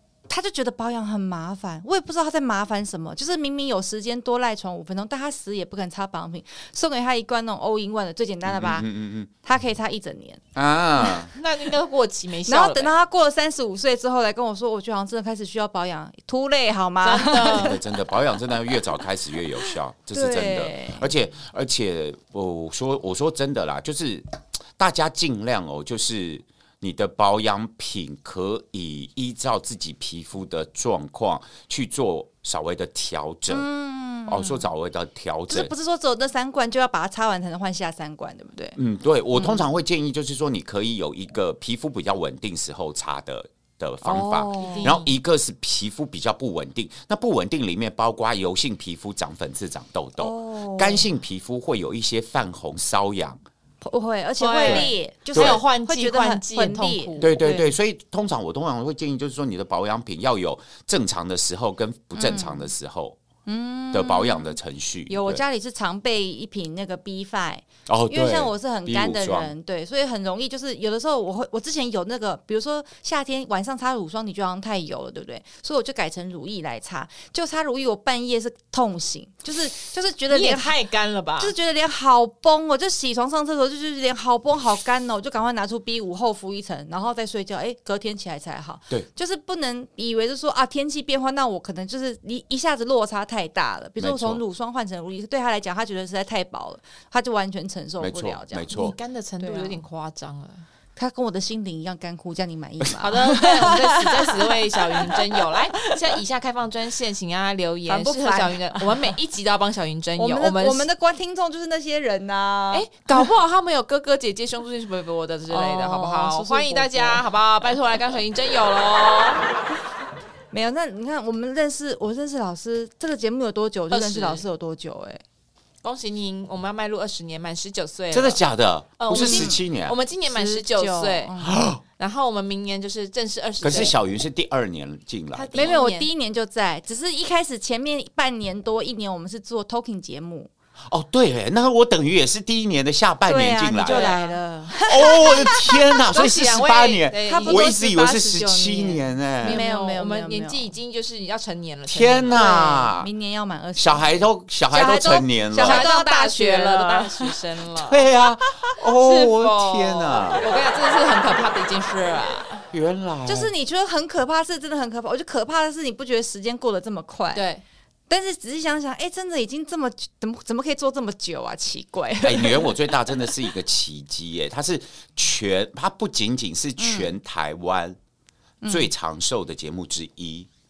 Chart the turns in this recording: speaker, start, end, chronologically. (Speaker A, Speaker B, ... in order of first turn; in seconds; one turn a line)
Speaker A: 0.3-8.9
Speaker B: 8.4-9.3
Speaker A: 9.4-10.4
Speaker B: 10.6-11.3
Speaker C: 11.3-12.9
Speaker A: 12.5-17.7
Speaker C: 17.0-17.8
Speaker B: 17.4-24.3
Speaker A: 20.1-21.1
Speaker B: 24.8-33.7
Speaker A: 33.5-34.7
Speaker B: 34.3-35.7
Speaker A: 35.5-38.8
Speaker B: 38.8-53.4
Speaker A: 39.4-39.6
Speaker A: 44.0-44.9
Speaker C: 44.6-45.1
Speaker A: 50.2-51.1
Speaker A: 53.8-57.3
Speaker C: 54.4-57.7
Speaker B: 54.6-55.6
Speaker B: 57.2-63.2
Speaker A: 62.2-62.7
Speaker A: 63.5-64.6
Speaker B: 63.9-65.4
Speaker A: 65.1-80.8
Speaker B: 67.9-69.5
Speaker C: 80.3-81.5
Speaker A: 81.4-98.7
Speaker B: 94.0-94.4
Speaker B: 98.0-99.0
Speaker C: 98.7-100.7
Speaker A: 99.4-99.8
Speaker A: 101.0-106.0
Speaker C: 103.0-110.9
Speaker A: 107.9-109.1
Speaker A: 110.2-113.3
Speaker C: 112.7-119.5
Speaker A: 115.5-117.2
Speaker A: 120.5-125.2
Speaker C: 123.9-124.4
Speaker C: 125.8-128.4
Speaker B: 128.1-130.0
Speaker C: 129.0-131.3
Speaker A: 129.1-129.6
Speaker A: 130.3-131.6
Speaker B: 131.4-131.8
Speaker C: 132.0-133.9
Speaker B: 133.6-135.8
Speaker C: 135.3-136.1
Speaker A: 135.6-140.5
Speaker B: 140.9-144.2
Speaker A: 143.3-146.0
Speaker C: 143.8-145.3
Speaker B: 144.8-149.6
Speaker C: 146.1-147.7
Speaker A: 147.3-150.7
Speaker C: 149.4-152.4
Speaker B: 151.9-153.1
Speaker A: 152.3-154.1
Speaker B: 153.8-155.8
Speaker A: 154.7-157.3
Speaker C: 155.6-158.0
Speaker B: 157.8-160.5
Speaker C: 158.9-162.6
Speaker B: 162.7-163.5
Speaker A: 163.3-167.4
Speaker C: 167.3-167.6
Speaker A: 168.1-173.3
Speaker B: 172.2-178.0
Speaker A: 176.8-177.1
Speaker A: 178.6-178.9
Speaker B: 178.7-180.5